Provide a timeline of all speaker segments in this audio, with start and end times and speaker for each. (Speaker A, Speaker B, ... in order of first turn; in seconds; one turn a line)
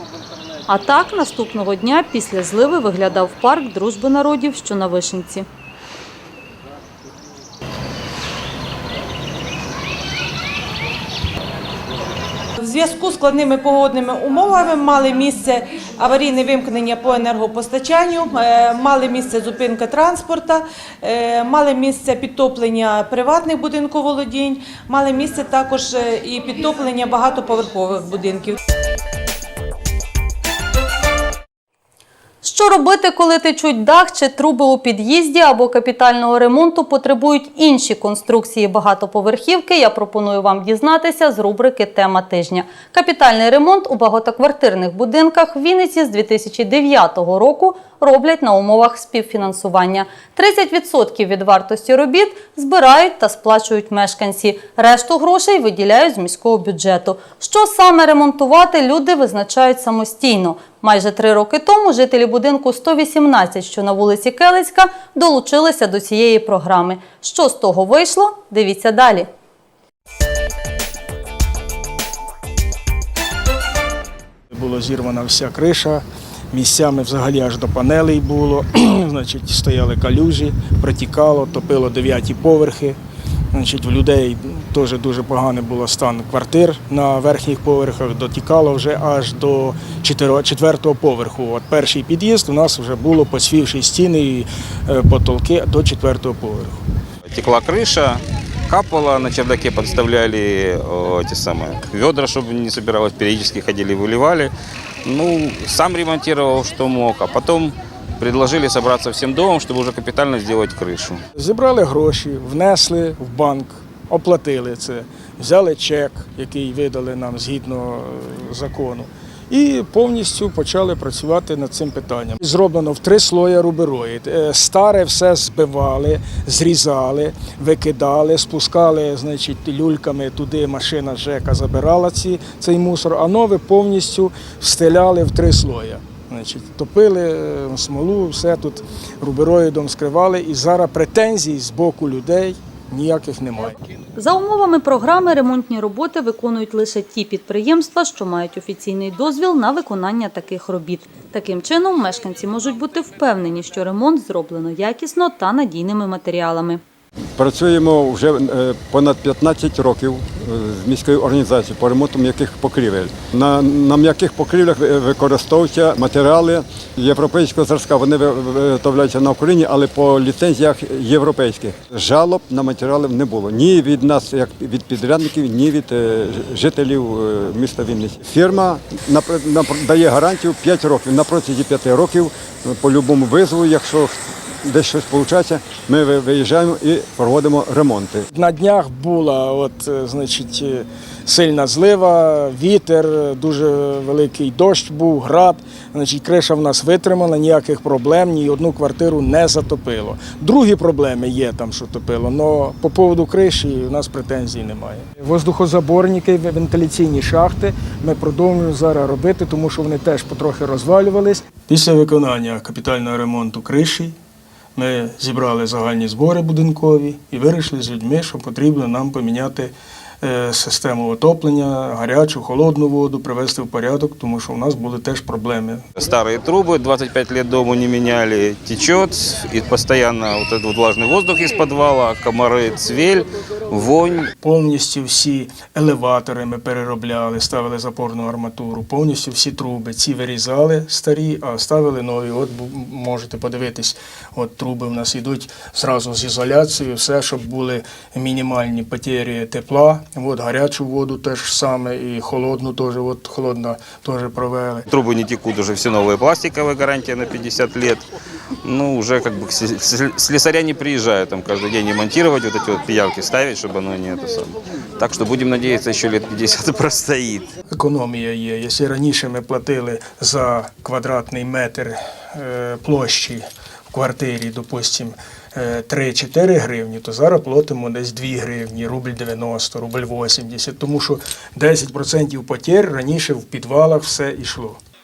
Speaker A: 0.7-5.5
Speaker B: 12.6-28.6
Speaker A: 32.4-69.3
Speaker C: 74.5-83.0
Speaker C: 83.5-96.8
Speaker D: 97.3-104.5
Speaker D: 105.0-111.2
Speaker C: 111.4-143.8
Speaker A: 144.2-156.8
Speaker E: 157.4-188.3
Speaker C: 188.3-214.2
Speaker C: 214.8-225.8
Speaker D: 226.0-234.3
Speaker C: 234.4-254.9
Speaker D: 254.9-258.0
Speaker D: 258.6-267.5
Speaker C: 267.7-284.8